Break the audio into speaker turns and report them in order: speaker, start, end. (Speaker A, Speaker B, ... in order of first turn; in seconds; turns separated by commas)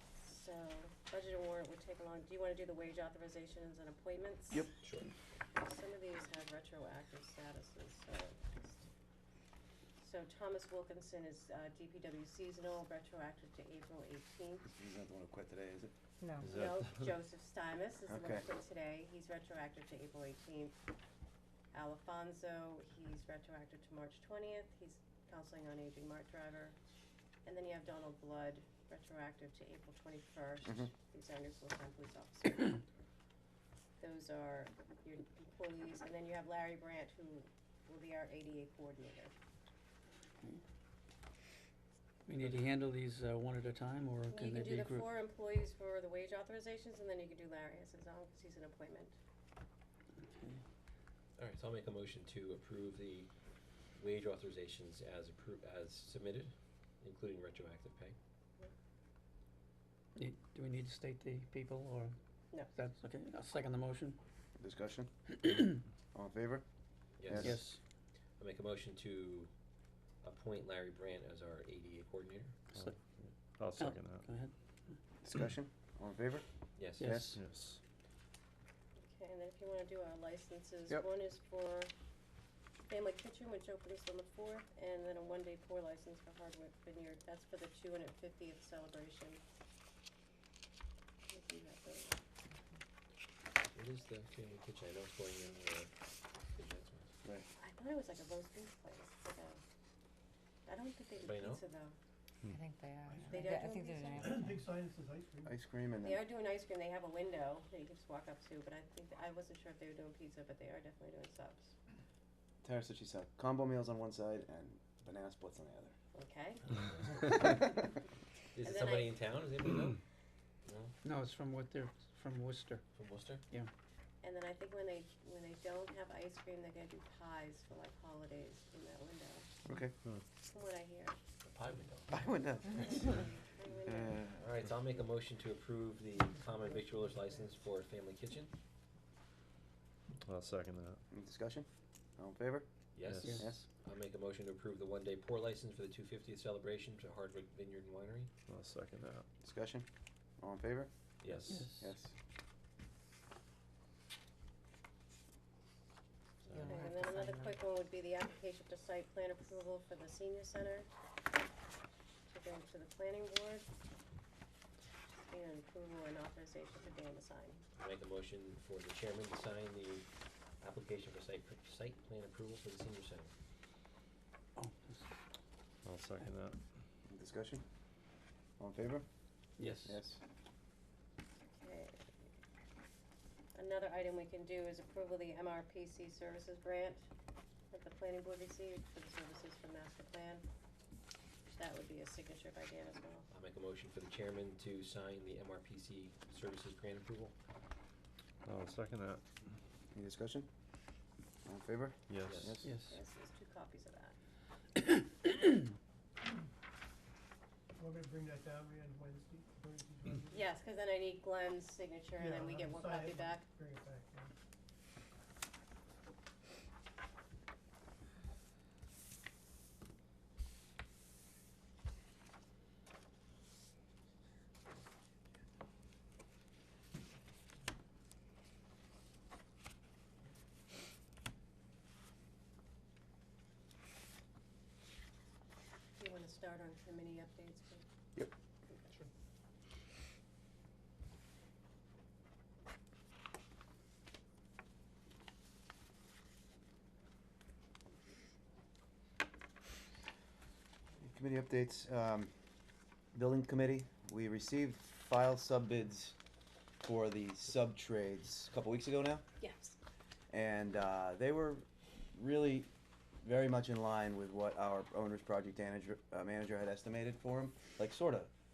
Speaker A: 0.2-4.7, Speaker B: 4.8-5.1, Speaker A: 5.5-8.9, Speaker A: 10.0-14.7, Speaker C: 14.8-15.9, Speaker D: 16.2-16.5, Speaker E: 16.4-17.1, Speaker A: 16.4-20.8, Speaker C: 18.1-18.4, Speaker A: 21.7-26.8, Speaker A: 27.4-32.8, Speaker A: 34.0-39.3, Speaker F: 42.3-45.1, Speaker A: 44.3-49.2, Speaker F: 50.2-50.6, Speaker B: 51.4-53.3, Speaker B: 54.0-58.2, Speaker F: 60.2-62.1, Speaker F: 62.7-64.2, Speaker C: 64.6-65.5, Speaker C: 66.1-66.6, Speaker B: 67.2-67.6, Speaker C: 67.3-67.6, Speaker F: 67.4-67.8, Speaker B: 68.4-69.5, Speaker B: 70.2-72.5, Speaker E: 72.7-74.2, Speaker F: 73.8-75.0, Speaker C: 75.2-76.4, Speaker B: 76.8-77.2, Speaker F: 77.0-77.3, Speaker C: 77.0-77.3, Speaker E: 77.3-77.8, Speaker A: 79.0-81.9, Speaker A: 82.9-89.4, Speaker A: 91.3-92.2, Speaker B: 93.7-95.9, Speaker B: 96.5-97.1, Speaker A: 97.6-99.6, Speaker A: 100.7-102.0, Speaker B: 101.2-101.6, Speaker D: 102.5-104.7, Speaker G: 103.1-103.4, Speaker A: 103.3-104.3, Speaker G: 104.2-105.5, Speaker C: 105.5-106.2, Speaker A: 106.0-111.7, Speaker C: 112.6-116.0, Speaker A: 116.1-116.7, Speaker B: 116.8-117.4, Speaker B: 118.5-120.0, Speaker A: 118.6-119.2, Speaker B: 120.7-120.9, Speaker F: 121.1-122.8, Speaker B: 122.9-123.4, Speaker A: 124.2-129.5, Speaker A: 130.4-131.2, Speaker B: 131.4-132.3, Speaker C: 132.1-133.2, Speaker A: 132.7-134.3, Speaker C: 133.9-134.4, Speaker B: 134.4-138.5, Speaker E: 140.2-141.0, Speaker C: 141.1-141.7, Speaker C: 142.2-142.7, Speaker B: 142.9-148.3, Speaker E: 143.0-143.4, Speaker F: 143.3-143.6, Speaker C: 143.3-143.6, Speaker E: 148.5-149.3, Speaker C: 149.4-149.9, Speaker C: 150.4-150.9, Speaker B: 151.2-151.6, Speaker E: 151.3-151.7, Speaker F: 151.6-151.9, Speaker C: 151.8-152.1, Speaker D: 156.5-157.6, Speaker A: 156.5-160.9, Speaker A: 162.3-163.7, Speaker A: 165.1-167.6, Speaker B: 167.8-170.1, Speaker B: 170.6-173.3, Speaker F: 174.6-175.1, Speaker E: 175.8-176.6, Speaker C: 177.1-177.6, Speaker C: 178.6-179.1, Speaker F: 179.6-179.9, Speaker C: 179.8-180.2, Speaker A: 181.5-182.1, Speaker A: 183.6-187.1, Speaker A: 187.7-190.4, Speaker A: 191.5-193.3, Speaker B: 193.3-197.3, Speaker E: 198.4-199.2, Speaker C: 199.9-200.5, Speaker C: 201.5-202.7, Speaker E: 202.1-202.6, Speaker B: 202.2-202.6, Speaker F: 202.6-202.9, Speaker A: 202.9-204.2, Speaker G: 207.8-210.5, Speaker A: 210.3-213.4, Speaker G: 212.2-214.3, Speaker A: 236.0-237.8, Speaker C: 251.0-252.3, Speaker C: 253.1-256.1, Speaker C: 256.8-259.2, Speaker A: 259.4-259.8, Speaker C: 260.3-262.7, Speaker C: 263.2-268.3